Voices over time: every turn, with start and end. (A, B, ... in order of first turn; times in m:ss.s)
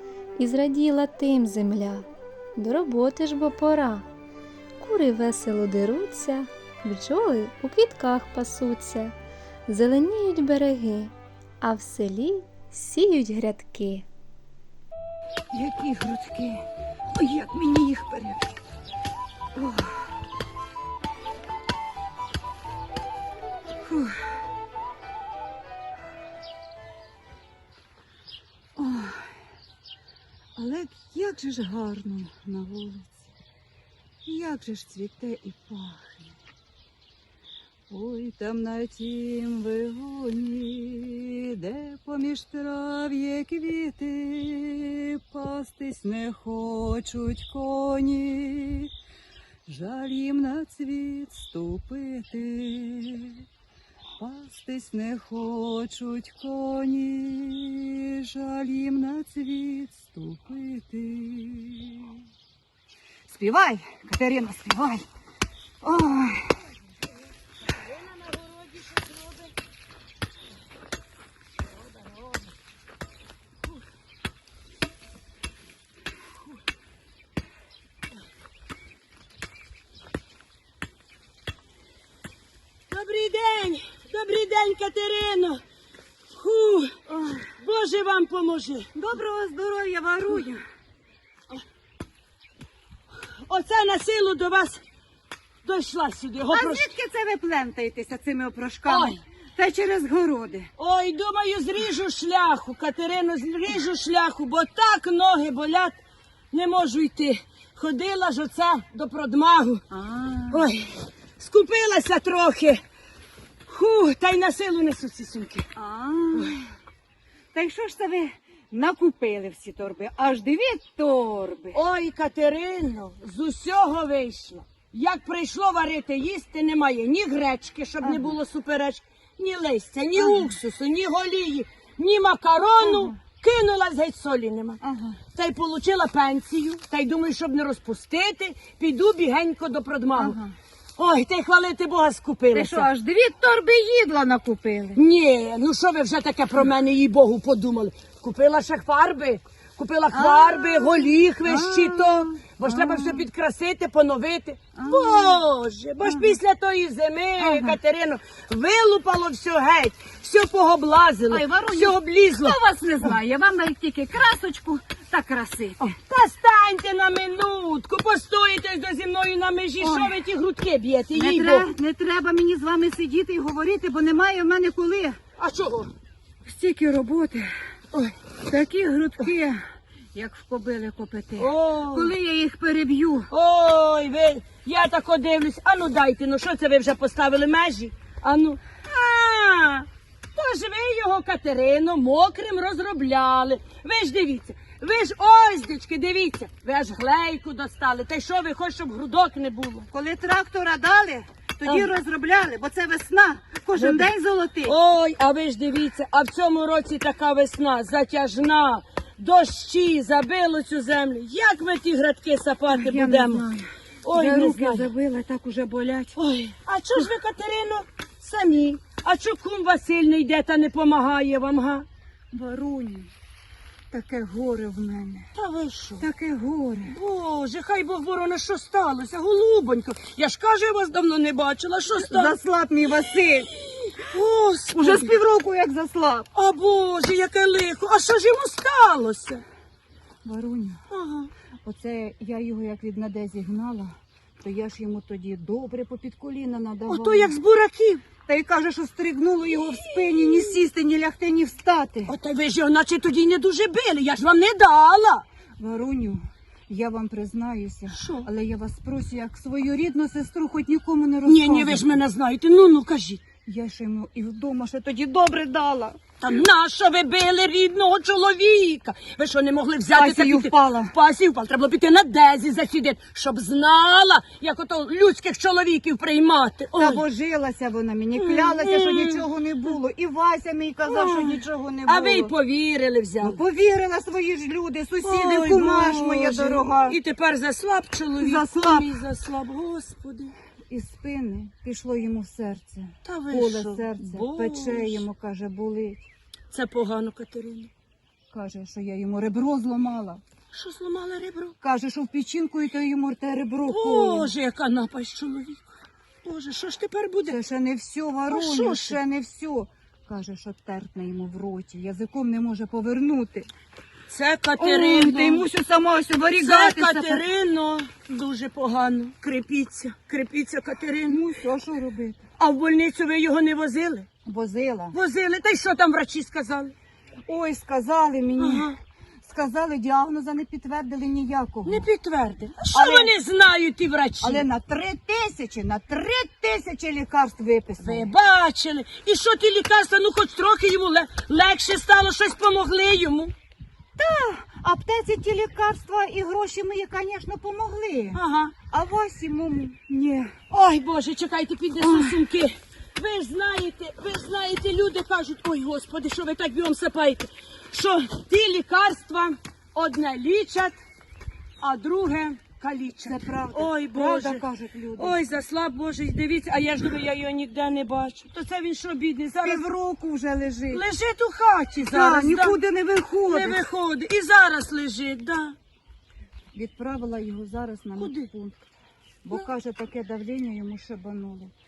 0:00.4-0:04.1 A
0:04.8-0:09.1 A
0:09.7-0:14.1 A
0:15.5-0:18.5 B
0:19.5-0:20.1 B
0:23.8-0:24.2 B
0:28.8-0:29.3 B
0:30.6-0:33.3 B
0:34.2-0:36.3 B
0:37.9-0:48.9 B
0:49.7-0:53.4 B
0:54.2-1:02.2 B
1:03.3-1:05.0 B
1:05.8-1:06.5 B
1:07.6-1:09.5 C
1:11.8-1:12.5 C
1:22.9-1:25.6 C
1:26.3-1:28.9 C
1:27.1-1:27.4 B
1:28.9-1:30.6 B
1:33.4-1:34.8 C
1:35.6-1:36.9 C
1:36.5-1:40.7 B
1:38.8-1:39.2 C
1:40.8-1:46.0 C
1:46.5-1:49.8 C
1:49.9-1:50.7 B
1:50.5-1:52.8 C
1:53.7-1:55.6 C
1:55.8-1:56.6 B
1:57.5-2:01.8 B
2:01.7-2:14.8 C
2:08.0-2:08.4 B
2:10.2-2:10.5 B
2:12.8-2:13.1 B
2:14.8-2:15.2 B
2:15.3-2:20.4 C
2:20.1-2:20.5 B
2:21.0-2:22.9 C
2:22.5-2:25.0 B
2:24.9-2:42.6 C
2:30.1-2:33.2 B
2:34.7-2:35.4 B
2:36.0-2:36.4 B
2:37.4-2:37.8 B
2:41.3-2:45.9 B
2:45.8-2:51.7 C
2:49.8-2:50.2 B
2:51.1-2:55.2 B
2:55.4-2:55.9 C
2:56.4-2:57.5 B
2:58.4-2:59.6 B
3:00.1-3:03.3 B
3:01.4-3:02.1 C
3:03.3-3:19.9 C
3:19.9-3:24.7 B
3:21.6-3:21.9 C
3:23.7-3:24.1 C
3:24.6-3:33.5 C
3:32.7-3:36.2 B
3:34.0-3:34.9 C
3:36.2-3:41.8 C
3:42.3-3:43.1 B
3:43.9-3:45.3 B
3:45.3-3:46.1 C
3:46.0-3:47.0 B
3:46.9-3:52.3 C
3:51.9-3:53.5 B
3:53.1-3:55.1 C
3:54.7-3:56.3 B
3:56.3-3:59.4 C
4:00.2-4:00.8 B
4:00.9-4:01.3 C
4:01.6-4:07.3 B
4:06.9-4:08.0 C
4:08.2-4:12.1 B
4:09.5-4:10.6 C
4:12.1-4:15.2 C
4:15.6-4:21.8 B
4:17.9-4:18.3 C
4:21.2-4:23.2 C
4:23.4-4:26.0 B
4:26.2-4:37.0 C
4:29.9-4:30.9 B
4:36.8-4:42.3 B
4:38.2-4:39.2 C
4:40.8-4:43.4 C
4:43.2-4:47.0 B
4:45.0-4:50.3 C
4:48.2-4:48.9 B
4:50.7-4:56.1 B
4:53.0-4:55.0 C
4:56.5-4:57.7 C
4:58.3-5:00.2 B
5:00.5-5:01.5 C
5:01.6-5:04.3 B
5:03.7-5:05.7 C
5:06.2-5:07.4 C
5:07.3-5:13.5 B
5:08.3-5:09.0 C
5:14.1-5:15.4 C
5:14.6-5:17.2 B
5:16.4-5:21.2 C
5:21.1-5:22.2 B
5:22.4-5:24.1 C
5:24.2-5:25.0 B
5:24.9-5:26.7 C
5:27.2-5:28.7 B
5:28.4-5:28.8 C
5:29.2-5:31.9 B
5:31.6-5:34.4 C
5:32.7-5:33.1 B
5:34.2-5:38.1 B
5:37.8-5:43.3 C
5:44.0-5:50.3 B
5:48.1-5:48.5 C
5:50.5-6:00.8 C
5:51.8-5:52.2 B
6:01.6-6:04.4 C
6:03.0-6:05.2 B
6:05.0-6:09.6 C
6:09.4-6:10.8 B
6:10.7-6:12.6 C
6:11.8-6:13.6 B
6:13.3-6:15.6 C
6:16.5-6:18.6 B
6:18.0-6:18.3 C
6:19.2-6:21.5 B